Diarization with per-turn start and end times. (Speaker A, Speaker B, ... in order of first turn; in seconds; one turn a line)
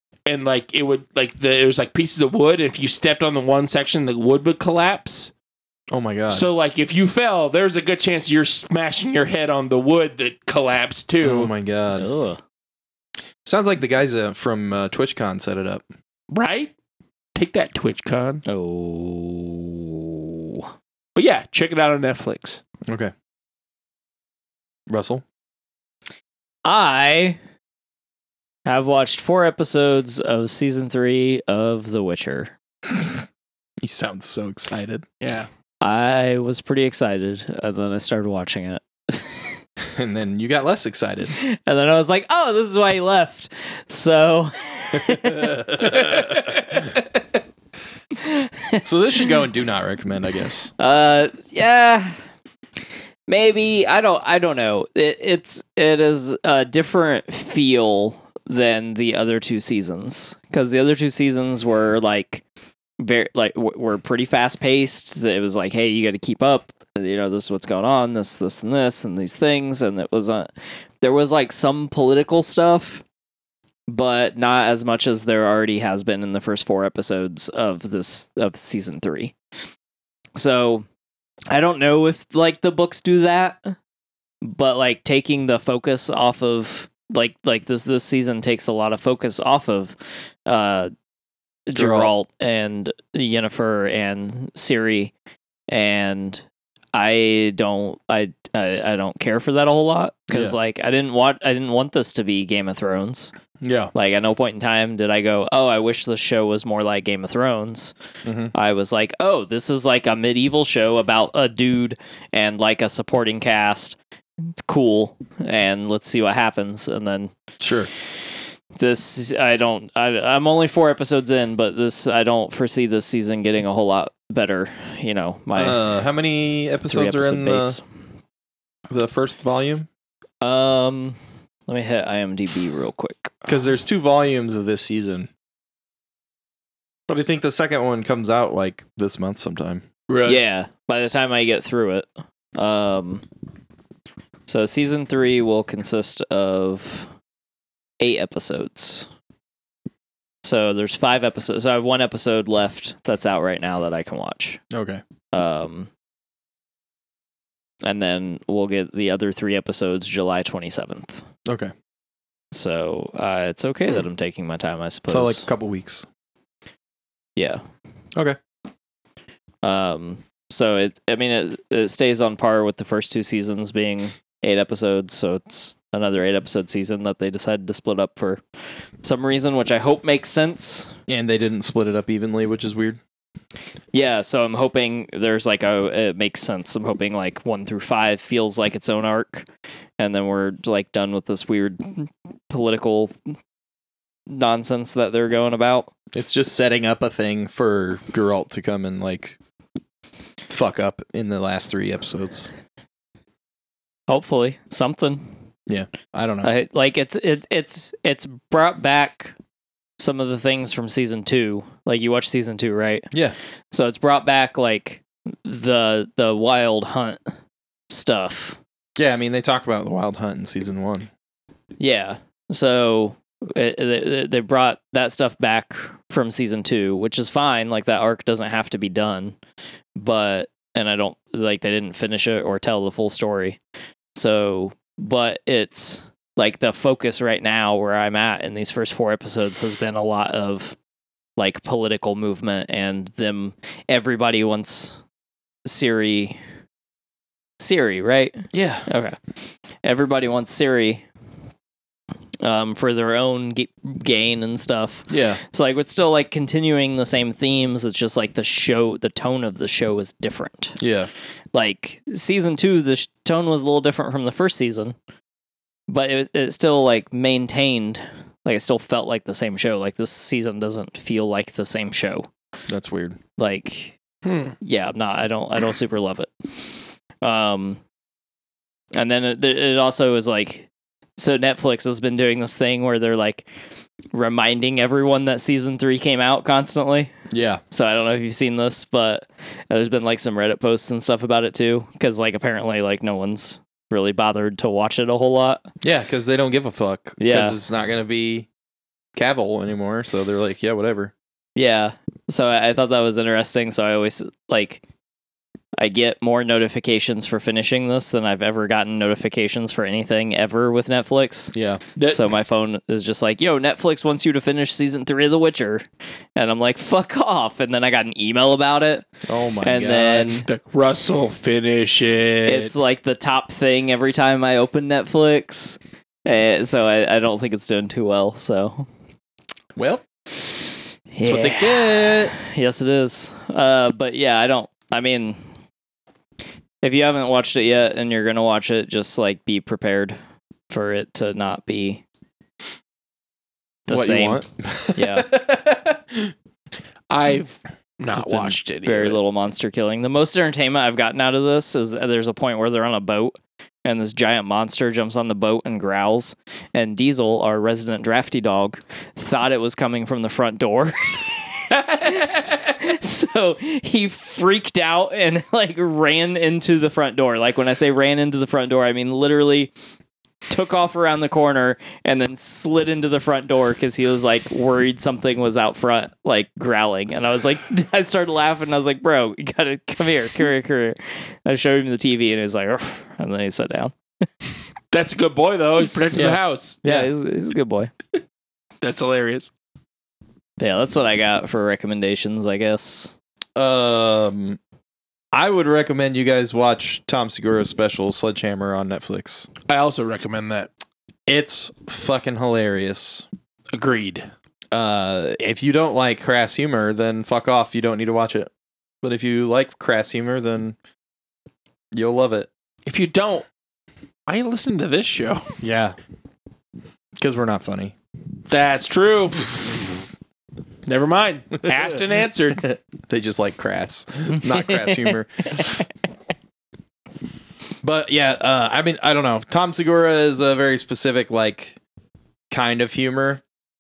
Speaker A: 0.3-5.3
Speaker B: 5.9-6.5
Speaker A: 6.3-11.5
Speaker B: 11.2-12.1
Speaker C: 11.9-12.4
Speaker B: 13.4-15.8
Speaker A: 16.3-16.7
Speaker A: 17.3-18.4
Speaker C: 18.4-20.7
Speaker A: 21.1-22.6
Speaker B: 22.9-23.1
Speaker B: 24.9-25.2
Speaker C: 26.6-27.4
Speaker C: 28.6-32.5
Speaker B: 32.9-33.2
Speaker B: 33.8-35.0
Speaker A: 35.2-35.5
Speaker C: 35.8-39.5
Speaker B: 39.9-41.3
Speaker C: 41.4-46.1
Speaker B: 44.9-46.5
Speaker A: 45.9-46.8
Speaker C: 48.2-48.8
Speaker B: 48.8-50.7
Speaker C: 50.8-52.1
Speaker C: 53.3-62.4
Speaker C: 63.0-73.0
Speaker C: 73.9-79.3
Speaker C: 80.3-80.9
Speaker C: 81.5-83.7
Speaker C: 84.4-90.9
Speaker C: 91.7-95.1
Speaker B: 91.7-92.1
Speaker C: 95.7-103.3
Speaker B: 100.3-100.5
Speaker B: 103.6-103.9
Speaker C: 103.9-107.9
Speaker B: 108.2-108.5
Speaker C: 108.5-117.3
Speaker B: 117.6-117.9
Speaker C: 118.8-125.8
Speaker B: 125.5-127.8
Speaker C: 126.9-127.8
Speaker B: 128.9-129.9
Speaker C: 130.4-133.6
Speaker B: 133.5-135.3
Speaker B: 137.1-139.9
Speaker A: 140.1-140.3
Speaker C: 140.2-143.2
Speaker C: 144.5-147.1
Speaker C: 148.0-149.1
Speaker C: 150.4-154.6
Speaker B: 154.7-155.0
Speaker C: 155.3-155.9
Speaker C: 157.8-161.2
Speaker B: 161.4-161.7
Speaker C: 162.5-165.4
Speaker B: 165.1-166.1
Speaker C: 167.3-167.6
Speaker C: 169.6-178.4
Speaker C: 179.0-180.9
Speaker B: 181.1-183.0
Speaker C: 183.9-189.5
Speaker C: 190.0-193.1
Speaker C: 194.3-195.9
Speaker B: 196.1-199.4
Speaker B: 200.5-202.5
Speaker C: 204.1-205.3
Speaker B: 205.7-206.5
Speaker C: 206.4-209.3
Speaker C: 210.0-213.1
Speaker C: 213.7-217.2
Speaker C: 217.9-218.6
Speaker B: 219.0-221.1
Speaker C: 221.8-229.4
Speaker C: 229.9-233.6
Speaker C: 234.2-240.8
Speaker C: 241.4-245.0
Speaker C: 245.6-246.4
Speaker C: 247.6-249.2
Speaker B: 248.5-248.9
Speaker C: 249.8-251.0
Speaker C: 252.4-260.8
Speaker B: 255.1-255.4
Speaker B: 260.8-261.1
Speaker C: 261.5-264.9
Speaker C: 265.9-272.3
Speaker B: 272.7-273.2
Speaker C: 273.4-274.0
Speaker A: 274.2-274.6
Speaker C: 274.6-276.3
Speaker C: 277.2-277.8
Speaker C: 278.9-283.5
Speaker C: 284.1-287.1
Speaker B: 287.3-287.6
Speaker C: 287.7-295.7
Speaker B: 295.8-298.5
Speaker C: 297.2-297.6
Speaker B: 299.1-301.1
Speaker C: 301.6-304.8
Speaker C: 305.8-319.1
Speaker B: 311.5-311.8
Speaker A: 312.0-312.3
Speaker B: 319.2-320.4
Speaker C: 319.6-320.4
Speaker A: 319.9-322.7
Speaker C: 322.4-328.9
Speaker B: 329.8-330.0
Speaker C: 331.1-335.4
Speaker B: 331.2-332.3
Speaker C: 336.8-340.2
Speaker C: 340.7-342.0
Speaker C: 343.9-345.3
Speaker B: 343.9-346.3
Speaker A: 347.1-349.2
Speaker C: 348.1-369.7
Speaker C: 370.5-383.9
Speaker A: 384.9-386.8
Speaker B: 386.1-387.1
Speaker C: 386.8-387.9
Speaker A: 388.8-389.5
Speaker C: 390.6-393.1
Speaker B: 393.6-394.6
Speaker B: 395.3-399.5
Speaker A: 399.7-400.7
Speaker B: 401.3-403.3
Speaker A: 403.7-404.3
Speaker B: 404.7-408.5
Speaker B: 409.0-410.8
Speaker B: 411.9-412.5
Speaker A: 412.9-413.5
Speaker A: 414.3-415.4
Speaker B: 415.6-415.9
Speaker B: 417.2-417.9
Speaker A: 418.5-419.5
Speaker A: 420.9-422.7
Speaker B: 422.6-425.8
Speaker B: 427.8-431.8
Speaker B: 432.5-433.4